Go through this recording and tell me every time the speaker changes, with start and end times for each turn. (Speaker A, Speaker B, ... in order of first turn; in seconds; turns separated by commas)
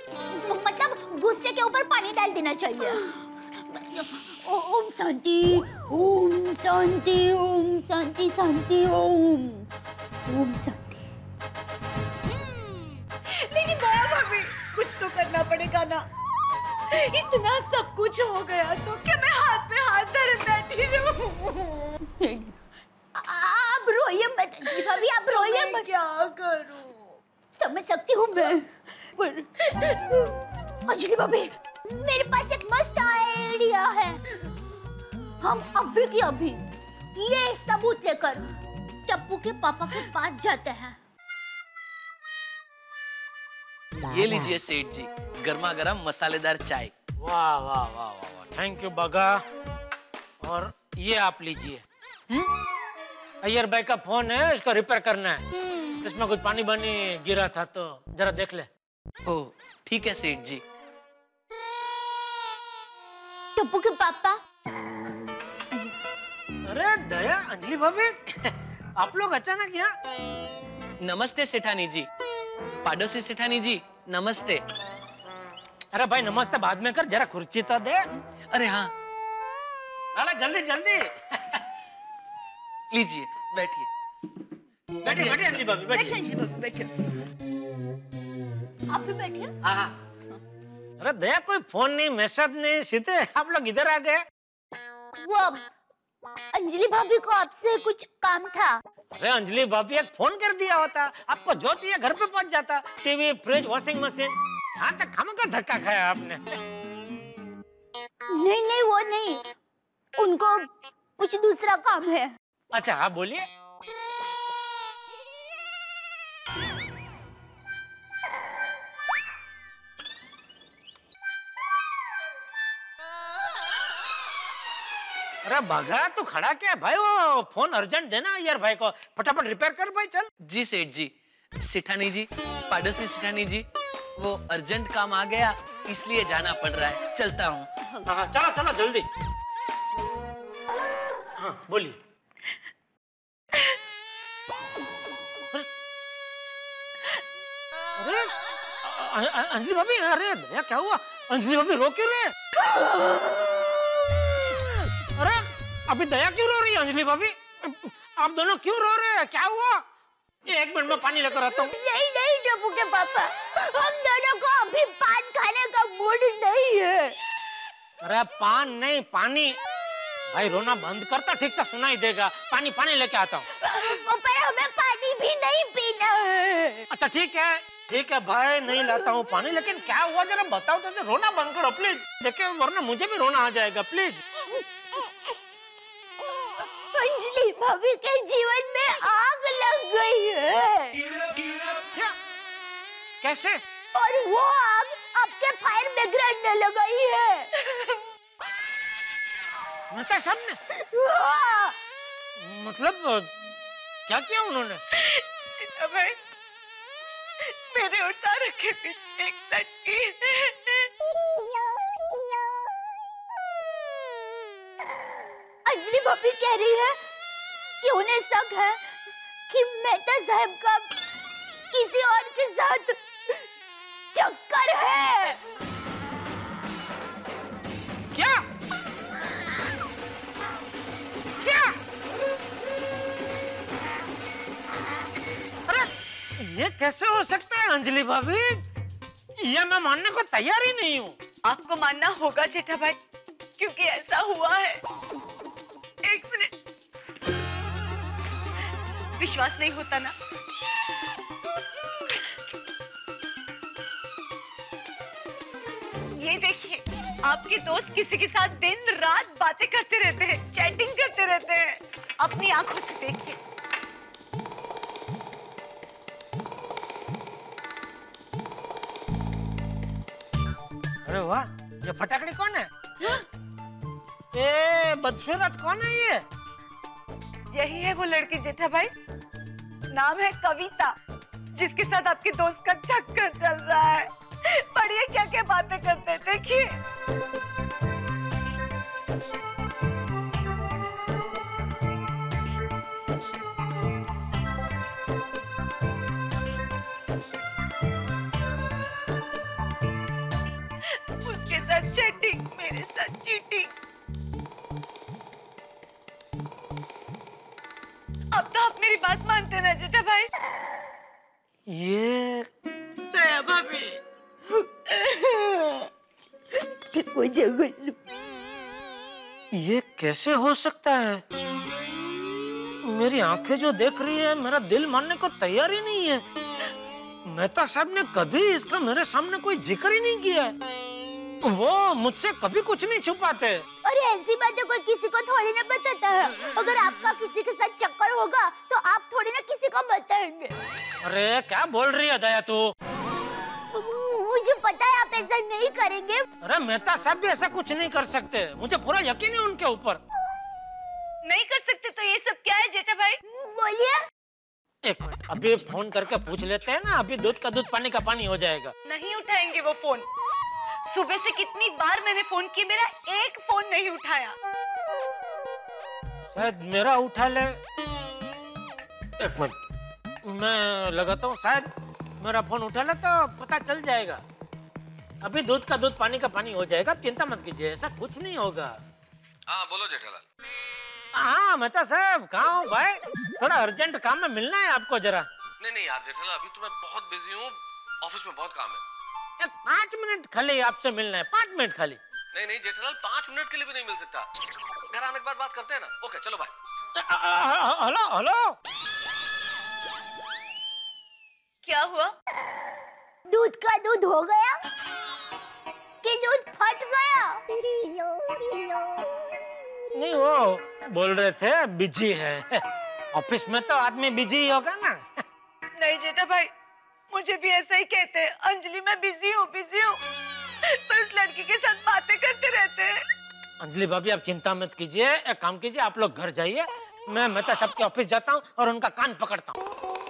Speaker A: 0.3-9.7, Speaker A: 10.3-11.1, Speaker B: 13.3-16.1, Speaker B: 16.9-21.9, Speaker A: 22.1-22.6, Speaker A: 23.1-25.9, Speaker B: 24.8-27.1, Speaker A: 27.5-29.7, Speaker A: 30.9-34.2, Speaker A: 35.4-36.6, Speaker A: 37.1-38.5, Speaker A: 39.1-41.0, Speaker C: 44.1-46.9, Speaker D: 47.2-49.4, Speaker D: 50.4-51.8, Speaker D: 53.4-55.4, Speaker D: 56.0-58.7, Speaker C: 59.3-60.6, Speaker A: 63.6-64.4, Speaker D: 66.7-69.9, Speaker C: 71.0-72.1, Speaker C: 72.8-74.6, Speaker D: 75.9-78.0, Speaker C: 78.5-78.9, Speaker D: 80.2-81.6, Speaker C: 82.9-83.9, Speaker D: 85.0-86.2, Speaker C: 85.1-85.4, Speaker A: 86.0-86.5, Speaker B: 86.1-86.8, Speaker A: 88.9-89.5, Speaker D: 89.6-89.9, Speaker D: 91.0-94.2, Speaker A: 95.2-95.6, Speaker A: 96.5-98.8, Speaker D: 99.1-106.6, Speaker A: 108.3-109.5, Speaker A: 110.2-112.3, Speaker D: 112.7-113.5, Speaker D: 125.5-130.3, Speaker C: 130.4-133.7, Speaker C: 134.2-137.7, Speaker D: 138.1-139.1, Speaker D: 141.4-142.0, Speaker D: 148.0-152.3, Speaker A: 152.7-153.4, Speaker D: 155.2-159.8, Speaker D: 160.5-161.7, Speaker A: 161.4-167.2, Speaker D: 168.0-169.6, Speaker D: 170.3-173.4, Speaker A: 173.6-176.9, Speaker D: 176.9-184.2, Speaker A: 184.5-185.1, Speaker A: 186.6-191.0, Speaker D: 193.2-193.6, Speaker A: 193.9-197.5, Speaker D: 199.9-200.6, Speaker A: 200.8-201.7, Speaker D: 202.4-203.3, Speaker D: 204.1-204.8, Speaker B: 204.9-206.2, Speaker B: 207.4-210.9, Speaker A: 211.3-212.3, Speaker A: 215.7-217.0, Speaker A: 217.8-219.0, Speaker A: 219.5-220.9, Speaker A: 221.7-223.4, Speaker A: 224.1-225.4, Speaker D: 228.1-228.4, Speaker D: 231.4-231.8, Speaker D: 235.7-238.6, Speaker D: 239.4-241.2, Speaker B: 241.5-243.0, Speaker B: 243.6-244.8, Speaker B: 246.0-246.6, Speaker B: 249.2-250.1, Speaker B: 256.2-263.4, Speaker D: 271.1-272.7, Speaker D: 274.3-276.2, Speaker B: 277.5-278.9, Speaker B: 279.9-280.9, Speaker B: 281.6-286.8, Speaker B: 301.2-303.7, Speaker B: 308.3-310.3, Speaker D: 311.7-312.5, Speaker B: 313.1-314.0, Speaker A: 314.9-315.8, Speaker A: 316.9-318.0, Speaker D: 319.5-321.2, Speaker D: 322.8-326.2, Speaker D: 327.3-330.5, Speaker D: 331.4-333.6, Speaker A: 333.8-340.6, Speaker D: 341.0-342.7, Speaker A: 343.7-346.3, Speaker D: 346.4-350.0, Speaker B: 351.2-353.2, Speaker A: 353.2-354.0, Speaker D: 354.9-358.7, Speaker B: 358.9-360.1, Speaker B: 360.9-364.4, Speaker D: 366.3-367.6, Speaker D: 369.2-369.6, Speaker D: 370.2-371.7, Speaker D: 372.2-374.2, Speaker D: 375.2-378.8, Speaker E: 379.5-380.2, Speaker D: 381.1-385.3, Speaker E: 385.6-388.8, Speaker D: 389.4-392.0, Speaker E: 392.3-394.3, Speaker E: 394.9-396.5, Speaker D: 397.0-398.6, Speaker A: 401.6-402.1, Speaker A: 403.3-404.6, Speaker A: 406.0-409.3, Speaker D: 409.9-412.6, Speaker D: 413.1-415.2, Speaker B: 415.8-416.5, Speaker B: 417.1-420.0, Speaker B: 420.6-423.0, Speaker D: 423.6-429.6